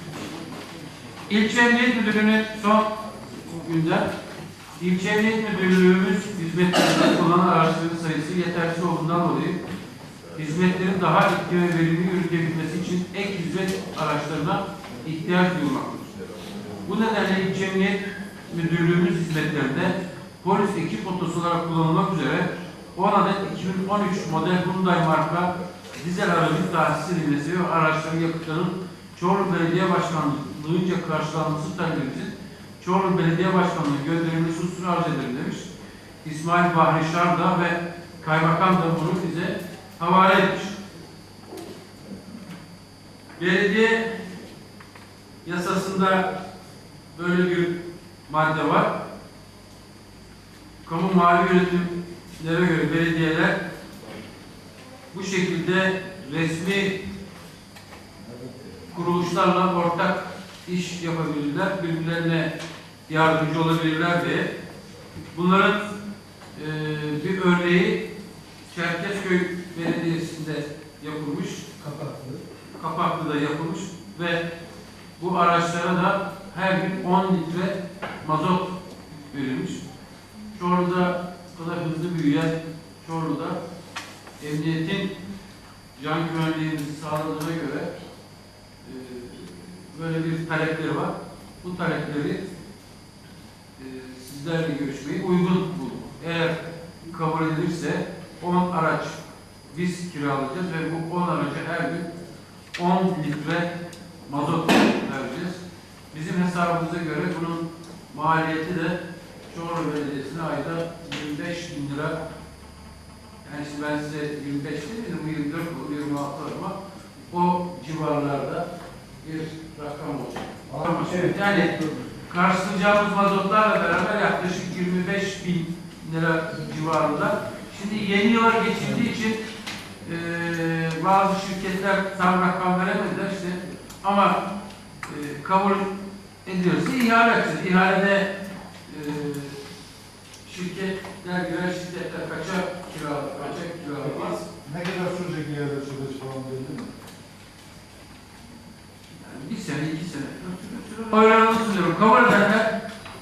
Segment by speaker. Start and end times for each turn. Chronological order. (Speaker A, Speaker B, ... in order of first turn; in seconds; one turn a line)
Speaker A: 1.3-2.9
Speaker A: 3.6-4.1
Speaker A: 4.8-9.6
Speaker A: 10.3-16.1
Speaker A: 16.8-35.7
Speaker A: 36.2-40.7
Speaker A: 43.4-44.1
Speaker A: 45.4-46.3
Speaker A: 47.1-48.9
Speaker A: 50.8-53.6
Speaker A: 55.1-57.0
Speaker A: 58.9-62.5
Speaker A: 63.1-64.5
Speaker A: 65.3-65.9
Speaker A: 66.5-68.0
Speaker A: 68.7-71.8
Speaker B: 71.8-72.4
Speaker A: 72.8-74.4
Speaker A: 75.2-79.8
Speaker A: 80.5-83.6
Speaker A: 84.4-85.1
Speaker A: 85.9-87.9
Speaker A: 88.8-92.4
Speaker A: 93.8-102.1
Speaker A: 102.8-103.7
Speaker A: 104.3-112.2
Speaker A: 113.4-116.8
Speaker A: 117.3-118.7
Speaker A: 119.2-129.4
Speaker B: 120.7-122.0
Speaker A: 130.0-134.4
Speaker A: 135.0-135.9
Speaker A: 136.4-138.3
Speaker A: 138.9-139.6
Speaker A: 140.4-144.4
Speaker B: 144.5-147.0
Speaker A: 149.1-152.8